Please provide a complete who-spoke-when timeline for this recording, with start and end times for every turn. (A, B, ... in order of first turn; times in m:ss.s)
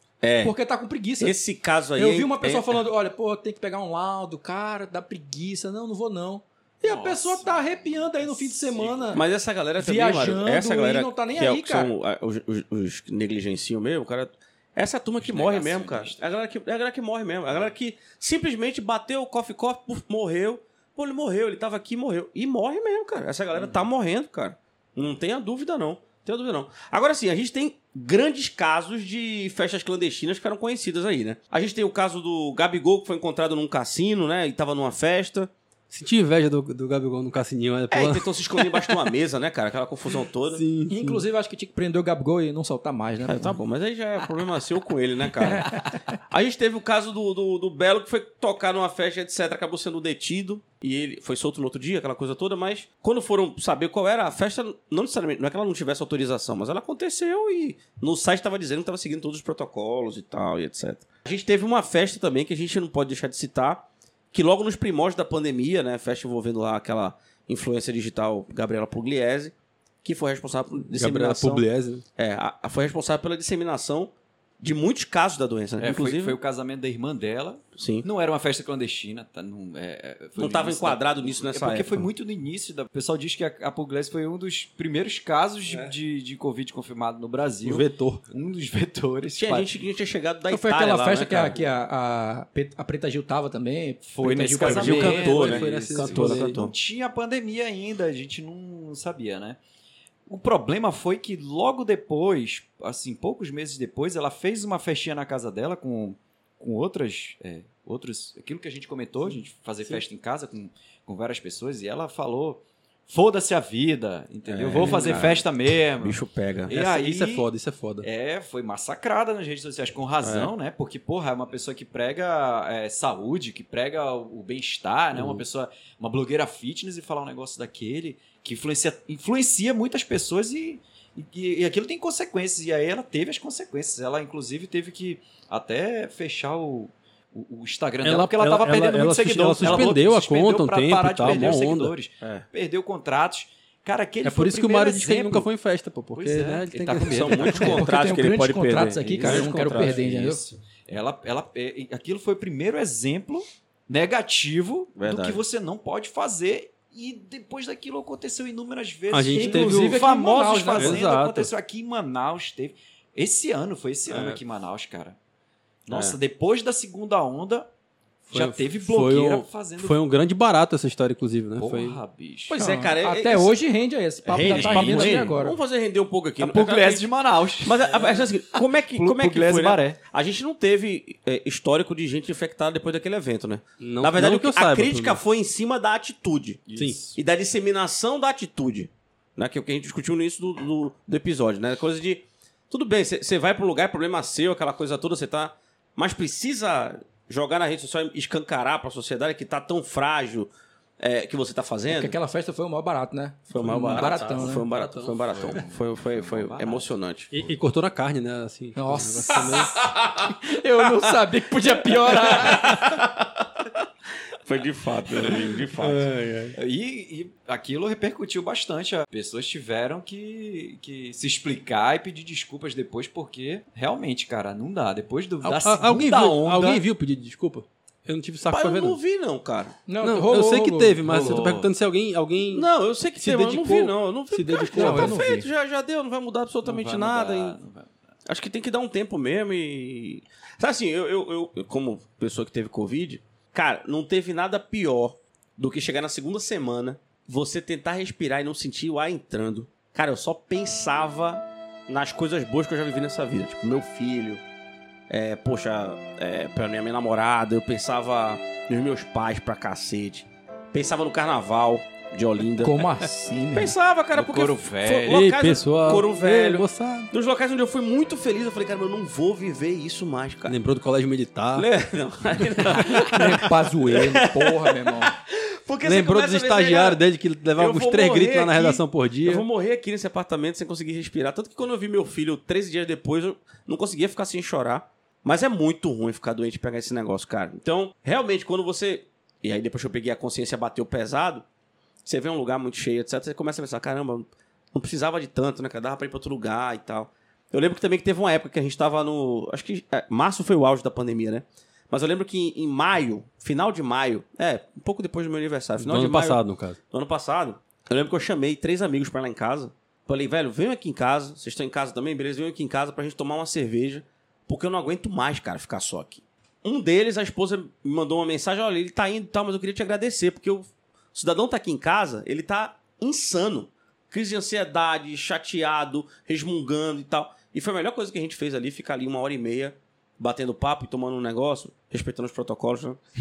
0:00.2-0:00.5 A
0:00.4-0:01.4 B
0:01.2-0:02.8 A
0:02.0-0:09.2 B
0:06.8-0:09.3 C
0:09.1-0:35.5 A
0:09.8-0:11.9 B
0:15.2-0:16.4 C
0:23.5-0:23.9 C
0:35.9-0:38.8 D
0:37.9-0:40.6 A
0:40.5-0:41.2 D
0:40.9-0:43.6 B
0:43.2-1:11.6 A
0:45.6-0:45.9 B
1:10.9-1:12.0 D
1:12.2-1:16.4 A
1:15.8-1:29.8 C
1:17.8-1:18.1 A
1:20.4-1:22.1 A
1:27.6-1:28.2 D
1:29.4-1:31.7 A
1:30.5-1:35.0 B
1:34.0-1:39.6 C
1:34.6-1:36.6 D
1:34.6-1:36.7 A
1:40.3-1:57.5 C
1:54.5-1:56.7 A
1:54.8-1:55.3 D
1:56.7-1:58.1 D
1:58.0-2:25.5 C
2:00.2-2:00.5 A
2:18.0-2:21.9 D
2:19.6-2:19.9 A
2:21.2-2:21.6 A
2:24.2-2:27.6 D
2:26.1-2:27.9 C
2:27.1-2:30.0 A
2:27.5-2:30.4 B
2:29.0-2:45.2 C
2:35.0-2:35.4 A
2:39.1-2:40.0 D
2:39.3-2:41.0 B
2:40.8-2:41.5 D
2:44.1-2:44.4 D
2:45.8-2:47.7 C
2:45.9-2:46.2 A
2:48.2-2:50.0 C
2:48.3-2:52.0 D
2:51.6-2:52.6 C
2:52.5-2:53.6 A
2:52.6-2:55.6 B
2:54.3-2:57.0 A
2:54.5-2:55.2 D
2:56.4-3:00.0 C
2:57.6-3:06.6 A
3:03.8-3:05.2 D
3:06.7-3:07.2 C
3:07.2-3:20.5 A
3:21.0-3:22.1 A
3:21.9-3:24.6 B
3:23.5-3:27.3 A
3:23.6-3:25.2 D
3:25.2-3:27.4 C
3:27.3-3:29.8 D
3:28.8-3:32.8 B
3:29.4-3:30.3 A
3:31.8-3:33.6 A
3:34.4-3:36.0 A
3:35.3-3:36.6 D
3:36.5-3:46.8 C
3:45.4-3:49.0 D
3:48.5-3:49.8 A
3:49.9-3:51.4 B
3:50.0-3:55.4 D
3:51.1-3:51.6 C
3:51.1-3:51.6 A
3:52.5-3:57.6 A
3:54.7-3:55.4 B
3:56.6-3:57.9 C
3:58.3-4:14.4 A
4:15.1-4:22.8 A
4:22.6-4:23.8 B
4:23.5-4:30.6 A
4:24.1-4:25.4 C
4:25.1-4:27.1 D
4:30.5-4:31.7 D
4:31.5-4:33.2 A
4:32.5-4:33.0 D
4:33.0-4:35.1 B
4:33.9-4:37.0 A
4:35.8-4:39.4 D
4:37.6-4:51.4 A
4:52.0-5:06.4 A
5:05.8-5:06.8 D
5:06.9-5:33.0 A